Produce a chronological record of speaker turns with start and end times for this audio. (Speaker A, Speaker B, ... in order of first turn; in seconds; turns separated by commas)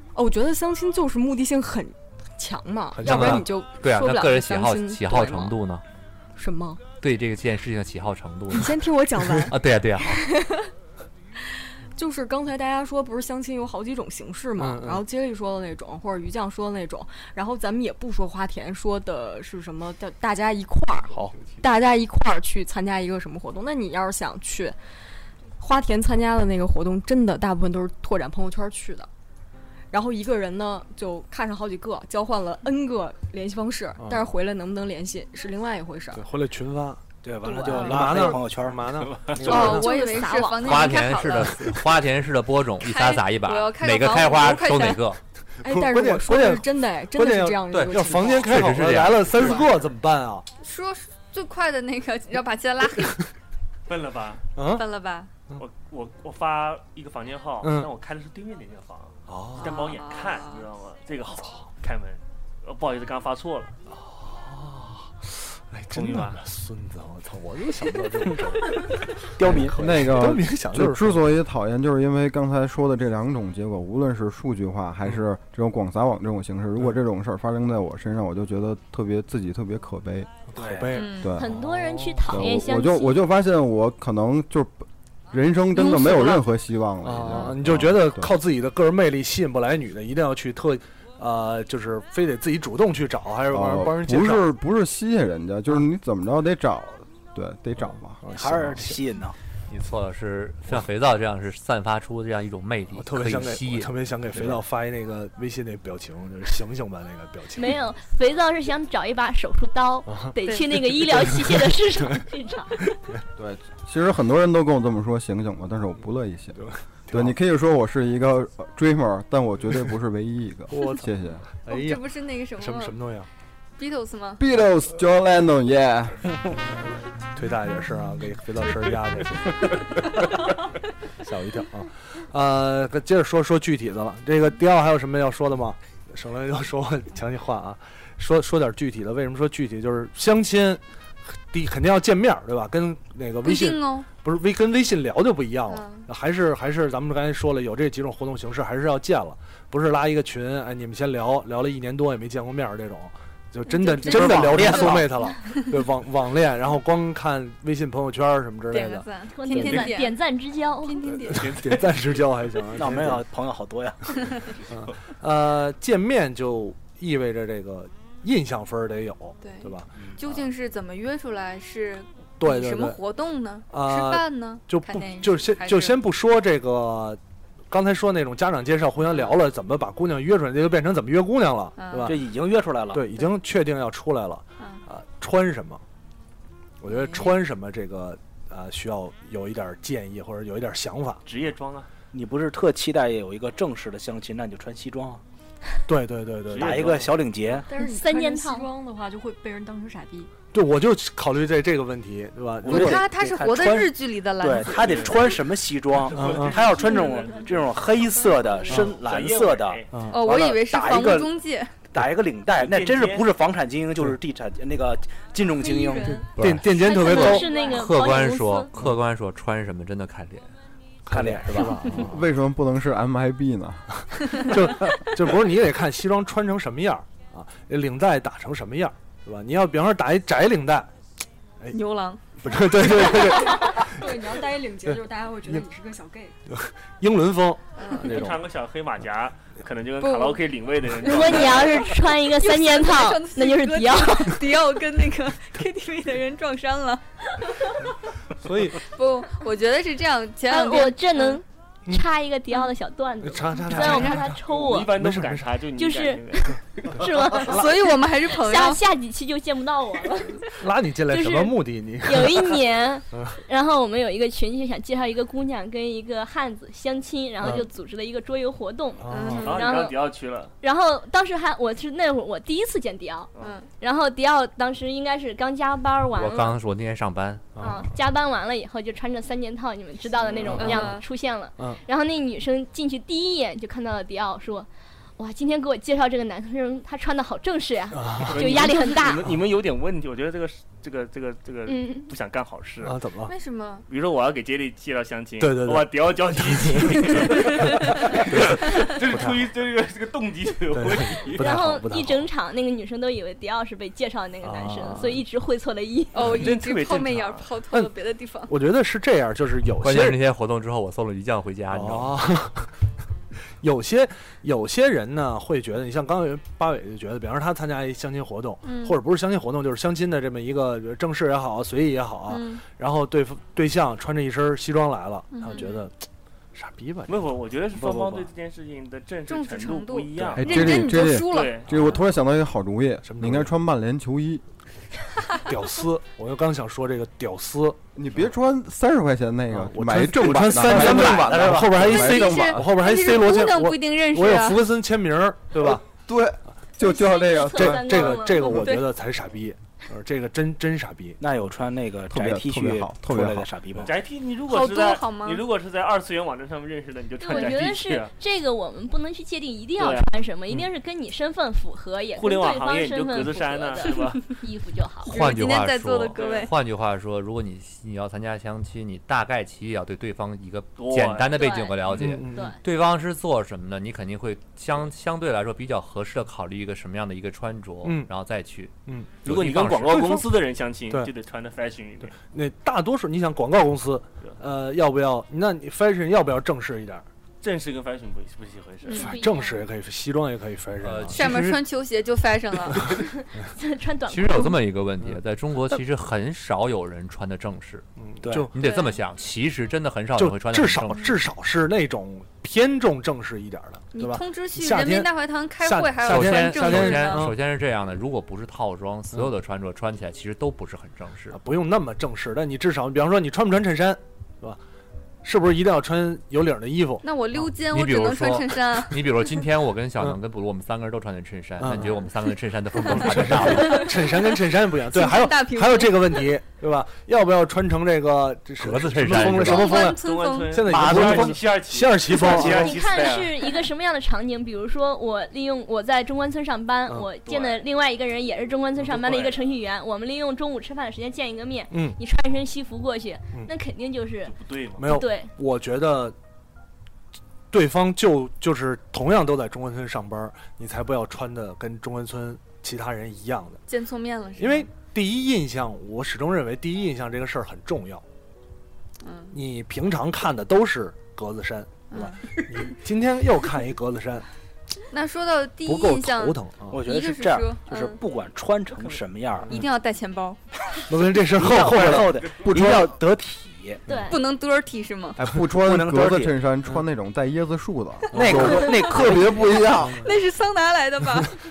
Speaker A: 0.1-5.6, Speaker B: 2.9-3.6, Speaker C: 3.0-5.8, Speaker A: 6.3-6.8, Speaker C: 7.0-10.3, Speaker A: 8.5-10.7, Speaker A: 11.5-24.8, Speaker B: 14.6-15.1, Speaker B: 21.1-21.5, Speaker A: 25.6-29.1, Speaker A: 29.9-36.2, Speaker B: 34.0-34.3, Speaker B: 36.1-37.0, Speaker D: 37.2-39.1, Speaker A: 37.4-37.8, Speaker E: 37.5-37.9, Speaker B: 37.6-39.9, Speaker F: 39.1-39.5, Speaker E: 39.4-41.8, Speaker A: 39.5-41.0, Speaker C: 40.6-45.2, Speaker E: 42.8-45.0, Speaker B: 45.6-50.5, Speaker A: 45.6-48.5, Speaker C: 47.7-49.6, Speaker E: 50.6-53.2, Speaker F: 53.9-54.4, Speaker B: 54.5-54.8, Speaker E: 54.7-55.3, Speaker F: 55.6-63.7, Speaker B: 57.6-57.9, Speaker B: 59.3-59.8, Speaker E: 59.6-60.6, Speaker B: 61.3-61.7, Speaker B: 63.9-71.2, Speaker F: 65.9-66.4, Speaker D: 69.4-70.2, Speaker G: 69.8-80.3, Speaker B: 80.5-82.3, Speaker D: 80.6-81.0, Speaker E: 80.9-81.3, Speaker G: 81.2-81.5, Speaker H: 81.3-83.3, Speaker G: 82.2-88.3, Speaker E: 85.7-86.4, Speaker B: 87.0-94.4, Speaker G: 93.5-98.2, Speaker B: 97.8-99.0, Speaker D: 98.3-99.4, Speaker C: 99.7-104.6, Speaker B: 102.9-107.8, Speaker H: 107.5-112.9, Speaker B: 110.0-110.3, Speaker E: 110.4-110.7, Speaker B: 111.1-111.3, Speaker G: 113.3-121.5, Speaker B: 116.5-117.3, Speaker B: 120.7-121.1, Speaker B: 121.6-122.0, Speaker E: 121.7-123.0, Speaker B: 122.6-123.3, Speaker E: 123.8-124.4, Speaker G: 124.4-126.3, Speaker B: 127.3-130.4, Speaker B: 131.2-159.9, Speaker E: 143.4-144.1, Speaker E: 145.7-146.1, Speaker E: 153.7-155.8, Speaker D: 154.0-155.1, Speaker E: 158.7-160.2, Speaker H: 159.3-161.0, Speaker E: 160.8-161.7, Speaker B: 161.1-163.2, Speaker D: 162.7-164.2, Speaker B: 164.7-170.4, Speaker E: 169.4-176.0, Speaker B: 172.4-173.0, Speaker B: 173.7-177.2, Speaker B: 177.7-182.2, Speaker E: 179.1-179.3, Speaker E: 181.8-182.1, Speaker D: 182.1-183.1, Speaker B: 182.9-185.8, Speaker B: 186.8-191.2, Speaker E: 186.9-187.4, Speaker F: 191.2-191.9, Speaker D: 192.1-195.2, Speaker B: 195.9-197.2, Speaker F: 196.5-197.2, Speaker D: 196.5-197.7, Speaker A: 197.7-200.3, Speaker H: 197.8-198.7, Speaker B: 200.5-203.9, Speaker D: 202.6-211.3, Speaker E: 202.7-204.7, Speaker F: 204.7-205.4, Speaker F: 205.9-209.9, Speaker B: 206.1-206.6, Speaker B: 208.7-209.0, Speaker B: 209.9-210.3, Speaker E: 210.1-211.7, Speaker D: 211.9-216.2, Speaker F: 212.5-213.3, Speaker E: 215.6-216.2, Speaker B: 216.0-217.5, Speaker C: 216.3-220.5, Speaker H: 216.8-218.7, Speaker E: 217.5-217.8, Speaker B: 221.1-222.2, Speaker D: 221.1-221.9, Speaker G: 222.0-223.8, Speaker B: 224.5-230.9, Speaker E: 231.7-232.2, Speaker B: 232.4-234.2, Speaker A: 233.4-236.3, Speaker B: 234.8-235.7, Speaker B: 236.5-238.4, Speaker E: 237.8-238.2, Speaker F: 238.1-241.8, Speaker E: 240.0-240.4, Speaker H: 241.0-244.4, Speaker E: 242.2-247.0, Speaker B: 248.4-248.8, Speaker E: 248.7-251.4, Speaker H: 250.5-255.0, Speaker B: 253.2-254.4, Speaker E: 253.8-254.2, Speaker F: 254.4-256.6, Speaker B: 254.9-255.5, Speaker H: 255.8-260.5, Speaker E: 257.3-258.8, Speaker B: 260.6-262.6, Speaker H: 261.1-270.0, Speaker B: 263.1-263.4, Speaker B: 267.4-267.7, Speaker B: 269.0-269.5, Speaker E: 269.1-269.7, Speaker F: 269.4-270.5, Speaker H: 270.6-276.6, Speaker E: 273.4-273.7, Speaker C: 276.1-277.4, Speaker B: 277.5-277.9, Speaker H: 277.6-289.2, Speaker F: 280.3-280.7, Speaker E: 280.5-281.0, Speaker B: 280.6-280.9, Speaker B: 287.9-289.3, Speaker F: 288.3-292.9, Speaker H: 291.6-292.1, Speaker B: 292.8-293.3, Speaker E: 293.2-293.9, Speaker F: 293.9-301.4, Speaker B: 295.4-299.5, Speaker E: 297.4-298.0, Speaker B: 300.7-302.3, Speaker H: 301.4-306.5, Speaker B: 304.4-305.2, Speaker E: 306.1-308.5, Speaker F: 306.2-307.5, Speaker B: 308.5-310.2, Speaker C: 309.8-312.2, Speaker B: 311.7-312.7, Speaker B: 313.6-325.9, Speaker E: 318.6-319.0, Speaker E: 322.3-322.6, Speaker E: 325.3-325.9, Speaker B: 326.5-327.4, Speaker F: 327.1-331.7, Speaker D: 327.7-328.3, Speaker E: 329.3-331.9, Speaker B: 330.3-330.7, Speaker G: 330.4-334.4, Speaker B: 333.0-333.5, Speaker B: 335.4-337.8, Speaker G: 337.9-342.7, Speaker B: 339.5-345.8, Speaker D: 340.4-341.8, Speaker E: 341.8-344.6, Speaker G: 345.6-348.2, Speaker H: 346.8-348.7, Speaker B: 347.5-351.2, Speaker E: 348.5-348.9, Speaker D: 351.2-353.9, Speaker G: 352.1-353.5, Speaker F: 353.8-358.1, Speaker E: 354.5-355.4, Speaker H: 357.2-365.2, Speaker F: 359.8-360.1, Speaker F: 362.2-364.2, Speaker E: 365.0-366.5, Speaker C: 365.1-380.2, Speaker F: 366.1-366.5, Speaker F: 370.8-371.4, Speaker H: 371.3-372.6, Speaker B: 371.9-372.6, Speaker B: 377.8-378.1, Speaker B: 378.9-380.3, Speaker F: 379.2-382.2, Speaker B: 382.0-387.0, Speaker F: 387.4-389.1, Speaker E: 388.9-389.2, Speaker H: 388.9-389.6, Speaker B: 389.0-391.6, Speaker C: 390.8-391.5, Speaker E: 391.1-392.9, Speaker H: 393.0-394.6, Speaker C: 394.1-397.8, Speaker B: 395.0-395.8, Speaker B: 398.0-398.5, Speaker D: 398.2-398.5, Speaker C: 398.5-401.1, Speaker E: 398.6-399.0, Speaker B: 400.1-407.4, Speaker E: 403.9-407.3, Speaker C: 406.0-411.4, Speaker B: 411.3-414.6, Speaker B: 415.2-417.0, Speaker E: 417.0-419.4, Speaker C: 417.6-423.9, Speaker B: 421.6-422.0, Speaker B: 422.8-432.8, Speaker E: 423.5-426.4, Speaker C: 428.6-429.8, Speaker E: 429.4-430.7, Speaker F: 429.8-433.6, Speaker H: 432.2-444.3, Speaker F: 437.3-437.6, Speaker F: 438.9-439.4, Speaker B: 441.7-442.0, Speaker F: 444.2-444.9, Speaker B: 444.8-446.1, Speaker H: 444.8-445.3, Speaker B: 447.5-453.6, Speaker E: 453.7-454.7, Speaker B: 454.4-458.0, Speaker E: 459.0-459.4, Speaker B: 459.3-464.2, Speaker E: 461.9-462.7, Speaker E: 464.9-468.0, Speaker B: 465.6-466.8, Speaker D: 466.7-469.6, Speaker E: 469.5-470.4, Speaker B: 470.9-472.7, Speaker D: 471.3-473.8, Speaker G: 472.4-472.9, Speaker H: 473.9-474.2, Speaker E: 474.1-475.2, Speaker G: 475.2-480.0, Speaker D: 475.5-476.4, Speaker D: 478.1-479.6, Speaker B: 478.1-478.6, Speaker E: 480.0-481.4